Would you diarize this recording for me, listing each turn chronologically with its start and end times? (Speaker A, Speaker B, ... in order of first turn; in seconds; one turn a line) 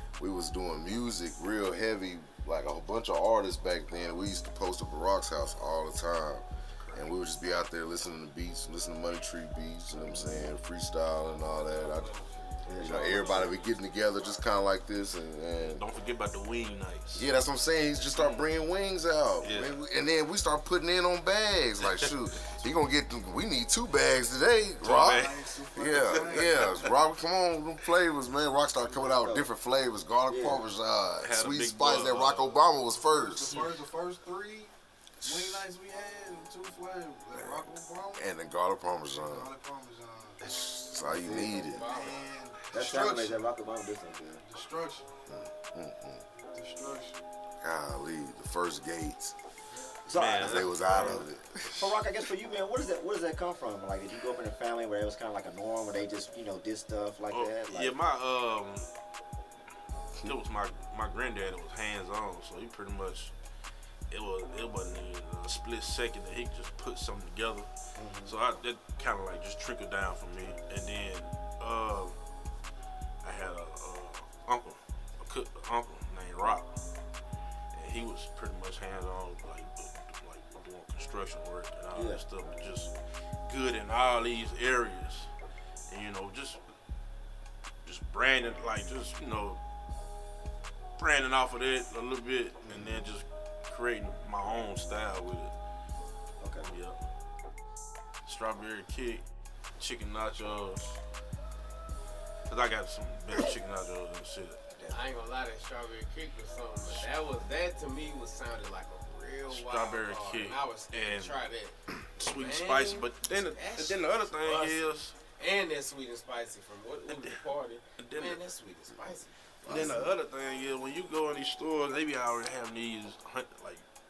Speaker A: 0.2-12.1
Speaker B: 6.8-7.1
Speaker C: 10.1-10.5
Speaker D: 11.2-14.4
Speaker C: 12.7-13.6
Speaker A: 12.8-15.8
Speaker B: 15.6-17.3
Speaker A: 17.1-33.6
Speaker B: 19.4-19.8
Speaker B: 24.8-27.0
Speaker E: 25.0-27.0
Speaker C: 29.0-29.5
Speaker C: 30.3-30.6
Speaker B: 31.2-32.6
Speaker E: 32.9-38.3
Speaker A: 35.2-35.7
Speaker A: 37.3-39.5
Speaker E: 39.1-40.4
Speaker A: 40.4-41.9
Speaker C: 41.1-41.8
Speaker D: 41.7-42.3
Speaker E: 41.8-43.4
Speaker C: 42.7-44.4
Speaker E: 44.4-45.1
Speaker A: 45.3-46.2
Speaker E: 46.4-47.3
Speaker A: 47.6-49.4
Speaker C: 50.1-58.0
Speaker B: 50.1-51.9
Speaker A: 50.4-51.9
Speaker B: 57.3-58.9
Speaker B: 60.2-63.3
Speaker B: 64.1-67.7
Speaker C: 68.0-68.3
Speaker B: 68.2-72.2
Speaker B: 73.2-76.7
Speaker B: 77.7-82.9
Speaker C: 81.9-82.2
Speaker B: 83.4-85.3
Speaker B: 85.9-86.6
Speaker B: 87.8-89.6
Speaker B: 91.0-95.5
Speaker C: 92.6-92.9
Speaker A: 92.7-93.0
Speaker C: 96.4-96.7
Speaker B: 96.7-97.0
Speaker B: 98.3-99.2
Speaker B: 99.8-101.0
Speaker B: 102.5-104.6
Speaker C: 104.7-105.0
Speaker D: 104.9-120.0
Speaker B: 109.5-111.5
Speaker B: 112.2-115.2
Speaker B: 117.1-117.4
Speaker B: 118.0-118.4
Speaker A: 119.7-120.2
Speaker B: 119.7-123.8